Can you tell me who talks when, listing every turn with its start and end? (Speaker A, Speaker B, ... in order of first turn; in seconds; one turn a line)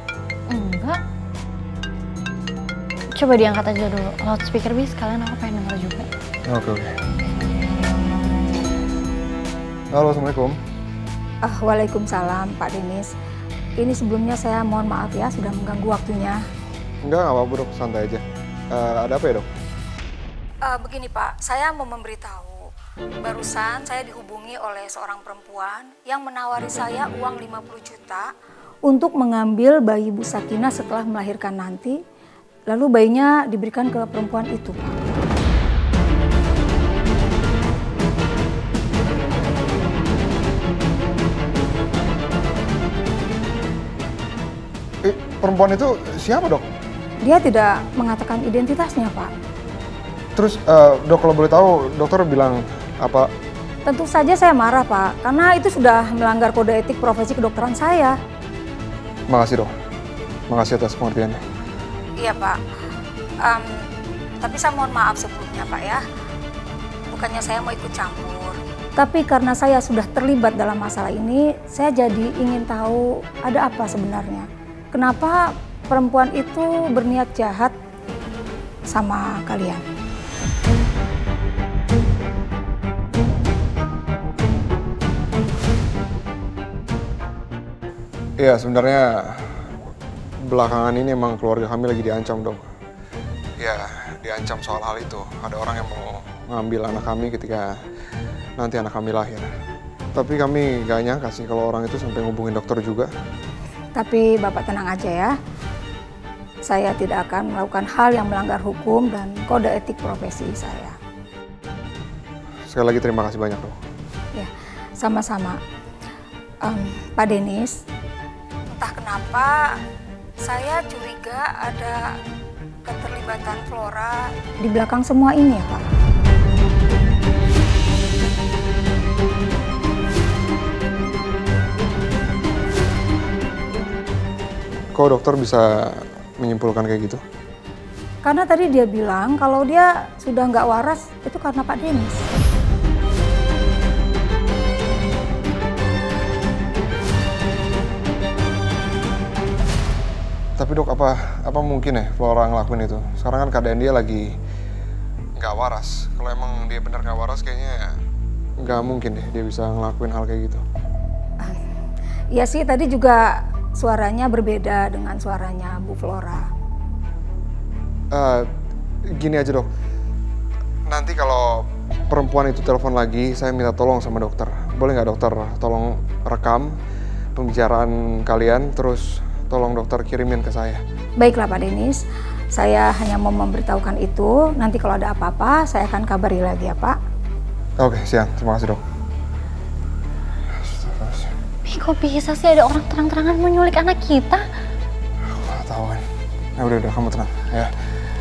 Speaker A: 0.5-1.0
Speaker A: 3.1-6.1
Speaker B: 6.5-7.0
Speaker B: 9.9-10.6
Speaker C: 11.4-13.1
Speaker C: 13.8-16.4
Speaker B: 17.0-19.5
Speaker C: 20.6-22.7
Speaker C: 23.2-28.3
Speaker C: 28.9-32.0
Speaker C: 32.7-35.2
Speaker B: 45.0-46.7
Speaker C: 47.2-49.3
Speaker B: 50.4-53.3
Speaker C: 53.9-58.2
Speaker B: 59.3-59.7
Speaker B: 60.5-61.4
Speaker C: 62.2-62.6
Speaker C: 63.4-63.8
Speaker C: 64.4-66.0
Speaker C: 67.1-77.7
Speaker C: 78.9-79.8
Speaker B: 88.4-89.6
Speaker B: 90.4-92.7
Speaker B: 93.6-97.7
Speaker B: 98.6-99.5
Speaker B: 100.1-103.1
Speaker C: 104.0-105.3
Speaker C: 106.7-111.0
Speaker B: 112.7-113.8
Speaker C: 114.3-115.6
Speaker C: 116.6-117.7
Speaker C: 118.7-119.7
Speaker C: 120.4-122.1
Speaker C: 122.8-125.8
Speaker B: 134.9-137.2
Speaker C: 138.2-142.3
Speaker B: 150.6-154.3
Speaker B: 155.4-157.9
Speaker B: 158.6-160.6
Speaker C: 162.3-166.5
Speaker B: 168.1-168.5
Speaker B: 169.1-169.7
Speaker B: 170.9-176.8
Speaker B: 177.3-180.8
Speaker C: 181.2-182.0
Speaker C: 182.5-187.0
Speaker B: 187.8-188.8
Speaker B: 190.5-191.3
Speaker A: 191.6-194.4
Speaker B: 195.3-196.0
Speaker B: 196.6-197.7